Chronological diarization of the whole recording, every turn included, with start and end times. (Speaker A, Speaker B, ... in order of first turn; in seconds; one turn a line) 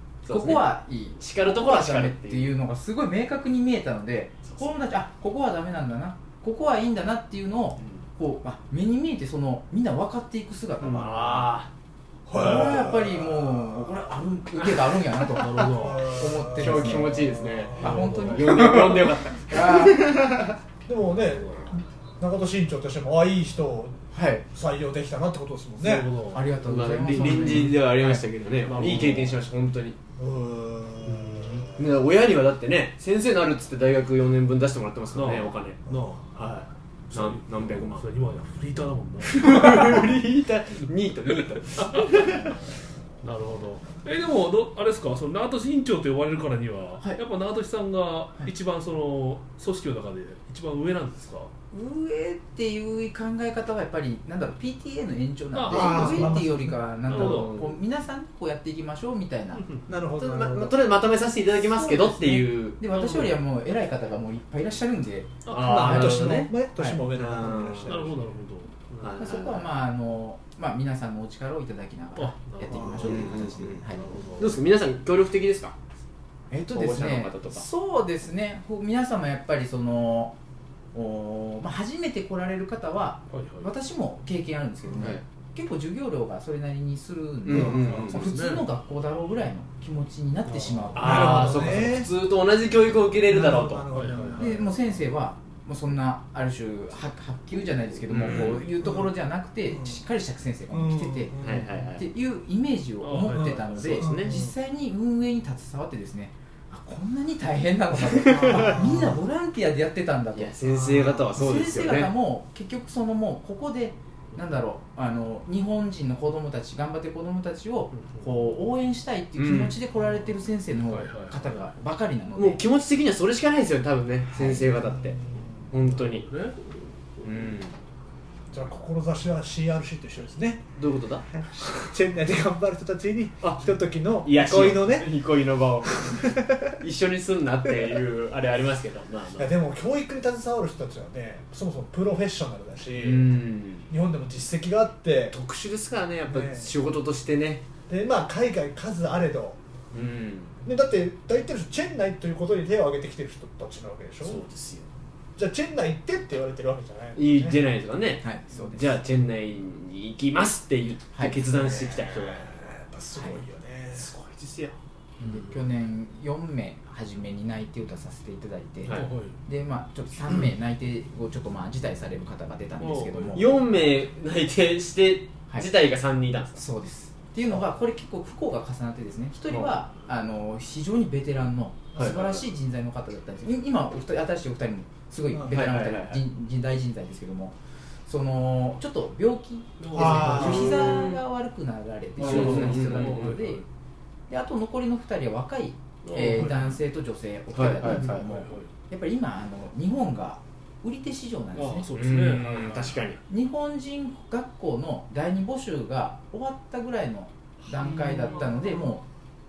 Speaker A: 0.2-2.5
Speaker B: 0.3-11.5
Speaker A: 4.4-4.8
Speaker C: 10.8-11.1
Speaker A: 10.9-11.7
Speaker D: 12.3-13.9
Speaker B: 12.3-20.5
Speaker C: 15.3-16.1
Speaker D: 15.7-17.9
Speaker A: 16.6-20.2
Speaker C: 16.7-17.1
Speaker C: 17.7-18.8
Speaker D: 20.3-26.1
Speaker C: 21.2-21.7
Speaker B: 24.1-24.5
Speaker C: 25.8-26.5
Speaker B: 26.3-28.2
Speaker A: 26.6-30.0
Speaker C: 27.1-27.8
Speaker C: 28.6-29.4
Speaker D: 30.2-31.8
Speaker C: 31.0-31.7
Speaker A: 31.8-35.8
Speaker C: 35.1-36.2
Speaker A: 36.4-38.0
Speaker C: 37.1-40.1
Speaker A: 39.2-42.5
Speaker C: 41.8-42.2
Speaker C: 43.2-51.5
Speaker B: 51.7-59.7
Speaker C: 55.5-56.4
Speaker D: 55.7-56.8
Speaker C: 57.1-57.5
Speaker A: 57.1-57.8
Speaker C: 59.5-59.8
Speaker D: 59.9-60.8
Speaker A: 60.2-62.8
Speaker B: 61.6-67.0
Speaker C: 62.9-63.3
Speaker C: 65.5-65.8
Speaker A: 65.5-66.5
Speaker D: 65.6-68.3
Speaker A: 67.1-68.1
Speaker C: 67.9-69.3
Speaker A: 69.0-69.7
Speaker B: 69.2-74.1
Speaker C: 72.2-74.6
Speaker D: 72.7-73.3
Speaker A: 73.0-73.8
Speaker A: 74.4-75.8
Speaker B: 76.5-80.3
Speaker A: 76.7-77.7
Speaker B: 80.9-91.8
Speaker C: 83.3-83.7
Speaker A: 85.0-85.2
Speaker A: 87.5-88.2
Speaker D: 87.5-88.2
Speaker C: 87.8-88.7
Speaker C: 90.5-91.7
Speaker A: 90.9-93.9
Speaker D: 91.0-92.1
Speaker D: 93.3-94.7
Speaker C: 93.9-94.6
Speaker B: 94.4-101.4
Speaker A: 98.1-98.7
Speaker C: 98.2-98.6
Speaker D: 98.8-99.1
Speaker D: 99.7-100.0
Speaker D: 100.7-101.9
Speaker A: 101.4-102.1
Speaker B: 102.0-110.5
Speaker C: 103.0-103.8
Speaker D: 103.3-104.5
Speaker A: 103.7-104.4
Speaker A: 108.2-108.9
Speaker D: 108.3-109.1
Speaker A: 110.3-112.1
Speaker D: 110.6-111.6
Speaker B: 111.3-122.6
Speaker C: 117.9-118.3
Speaker A: 119.4-119.8
Speaker C: 120.9-121.5
Speaker A: 122.4-125.2
Speaker B: 124.3-124.8
Speaker D: 124.8-125.5
Speaker A: 125.7-126.3
Speaker C: 125.8-126.6
Speaker A: 127.2-127.8
Speaker D: 128.5-130.6
Speaker A: 130.8-131.3
Speaker D: 131.3-135.2
Speaker A: 133.4-133.7
Speaker A: 134.2-139.5
Speaker D: 136.0-136.7
Speaker D: 137.7-138.0
Speaker D: 139.4-145.3
Speaker A: 143.0-143.9
Speaker A: 145.3-147.6
Speaker D: 146.3-146.7
Speaker D: 147.9-149.6
Speaker A: 149.9-150.6
Speaker D: 150.6-154.4
Speaker A: 154.2-154.9
Speaker D: 155.4-157.6
Speaker A: 157.2-162.5
Speaker B: 158.2-158.8
Speaker B: 161.1-161.4
Speaker D: 161.4-164.1
Speaker B: 163.2-163.4
Speaker A: 163.9-164.8
Speaker B: 165.2-173.6
Speaker C: 168.9-169.3
Speaker C: 172.8-173.6
Speaker A: 173.3-176.6
Speaker B: 176.6-187.6
Speaker A: 179.5-179.8
Speaker A: 182.0-182.4
Speaker D: 185.3-185.7
Speaker A: 185.5-186.2
Speaker B: 188.1-193.7
Speaker C: 189.8-191.0
Speaker D: 189.9-190.9
Speaker A: 190.0-191.2
Speaker A: 192.2-193.3
Speaker C: 192.2-193.7
Speaker B: 194.3-201.9
Speaker C: 196.0-196.8
Speaker A: 197.5-198.3
Speaker C: 197.8-198.7
Speaker C: 201.6-203.0
Speaker A: 202.0-203.2
Speaker B: 203.3-209.1
Speaker C: 207.8-208.7